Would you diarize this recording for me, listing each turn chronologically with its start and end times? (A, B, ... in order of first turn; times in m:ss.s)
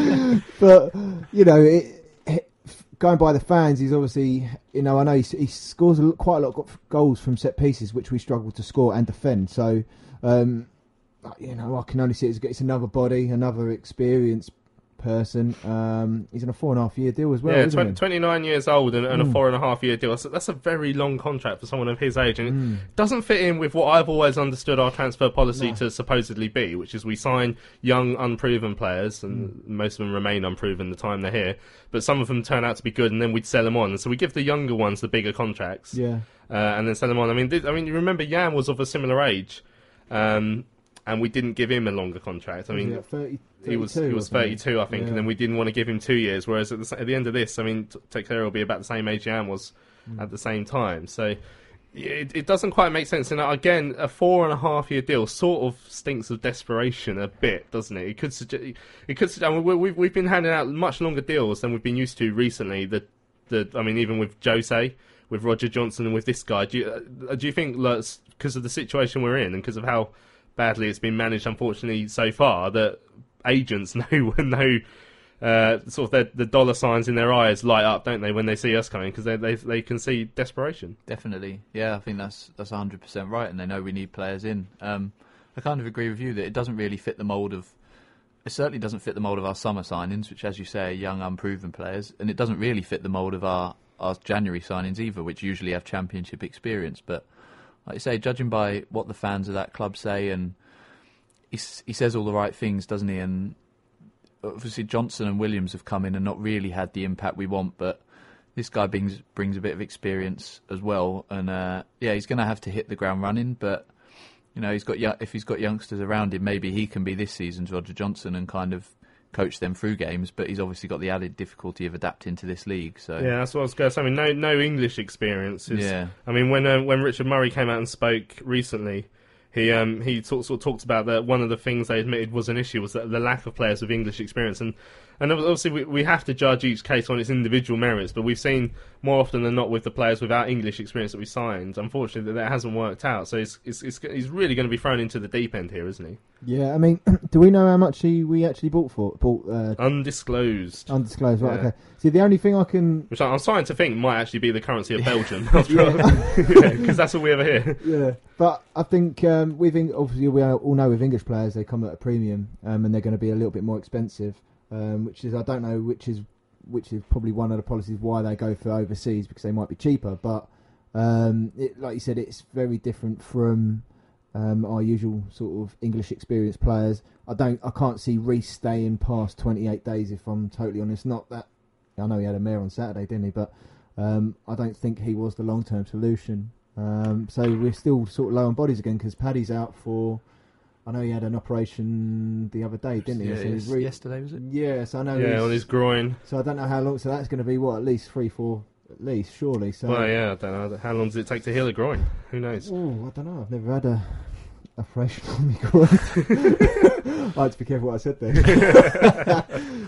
0:00.5-0:18.0 A
0:17.5-0:51.4 B
0:19.1-0:19.4 A
0:22.5-0:22.9 A
0:25.5-0:25.8 A
0:35.9-0:36.3 A
0:42.7-0:45.3 A
0:51.9-1:14.8 B
1:15.4-1:21.0 B
1:21.1-1:27.8 C
1:28.4-1:37.3 C
1:37.8-1:40.6 C
1:41.5-1:43.6 C
1:44.4-1:48.0 C
1:48.5-2:03.3 C
2:03.2-2:26.2 B
2:05.7-2:06.2 C
2:26.4-2:33.1 A
2:29.8-2:31.7 B
2:33.1-2:38.0 B
2:35.7-2:36.7 A
2:37.4-3:20.2 A
3:13.2-3:14.4 C
3:15.1-3:16.2 B
3:19.9-3:22.7 B
3:22.6-3:26.7 A
3:27.3-3:29.1 A